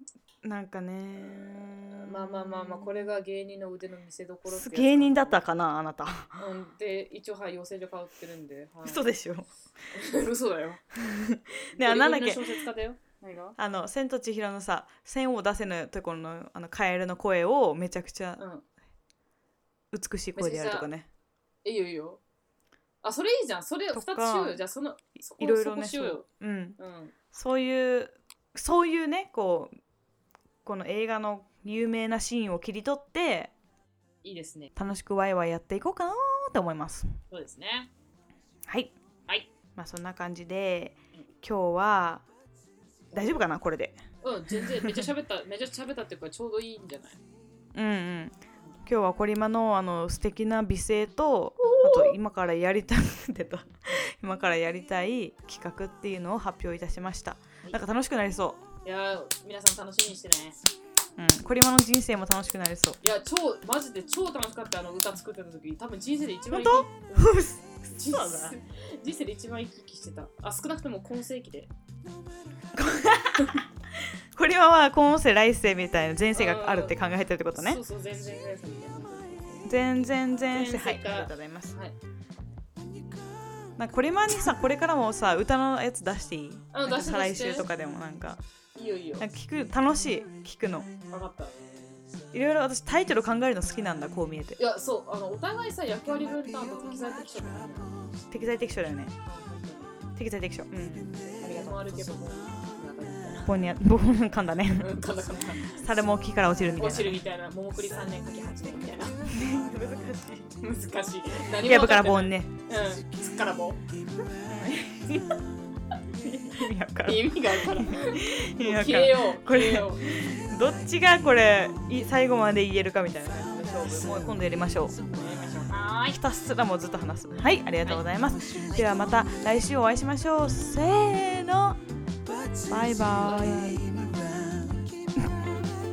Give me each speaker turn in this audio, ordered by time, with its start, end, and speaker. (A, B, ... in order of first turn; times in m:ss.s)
0:00.4-0:03.2 A
0:01.2-0:05.4 B
0:04.5-0:06.4 A
0:06.4-0:09.0 B
0:08.8-0:09.5 A
0:09.9-0:10.8 B
0:11.0-0:12.6 A
0:11.7-0:13.6 B
0:13.6-0:18.4 A
0:18.4-0:18.7 B
0:19.9-0:21.1 A
0:20.4-0:20.9 B
0:21.6-0:22.2 B
0:23.0-0:26.3 B
0:23.9-0:24.6 A
0:25.4-0:26.8 A
0:26.8-0:27.1 B
0:27.3-0:29.7 A
0:30.6-0:33.5 A
0:34.2-0:34.7 B
0:34.8-0:37.2 A
0:37.3-0:37.9 B
0:38.7-0:39.0 A
0:39.8-0:42.2 A
0:43.1-0:43.4 B
0:43.1-0:44.0 A
0:44.2-0:47.2 B
0:44.5-0:45.1 A
0:47.8-0:58.6 A
0:51.6-0:52.2 B
0:58.8-1:00.6 B
1:01.2-1:03.0 A
1:03.0-1:11.7 B
1:06.5-1:08.6 A
1:12.7-1:13.7 A
1:14.3-1:17.8 A
1:16.3-1:17.0 B
1:17.6-1:19.7 B
1:19.7-1:21.8 A
1:20.5-1:22.0 B
1:23.8-1:28.4 A
1:26.7-1:27.7 B
1:28.8-1:29.3 B
1:29.2-1:30.9 A
1:31.1-1:31.5 B
1:32.3-1:34.6 A
1:34.6-1:38.0 B
1:38.3-1:39.2 A
1:39.3-1:39.9 B
1:40.2-1:41.8 A
1:41.4-1:43.6 B
1:43.4-1:45.0 A
1:44.7-1:45.8 B
1:45.6-1:47.2 A
1:46.8-1:49.2 B
1:49.3-1:50.5 A
1:50.6-1:53.8 B
1:51.6-1:52.5 A
1:54.5-1:55.4 A
1:56.2-2:05.0 A
1:57.0-2:00.1 B
2:05.1-2:06.2 B
2:06.1-2:11.8 A
2:12.7-2:13.9 A
2:13.2-2:14.1 B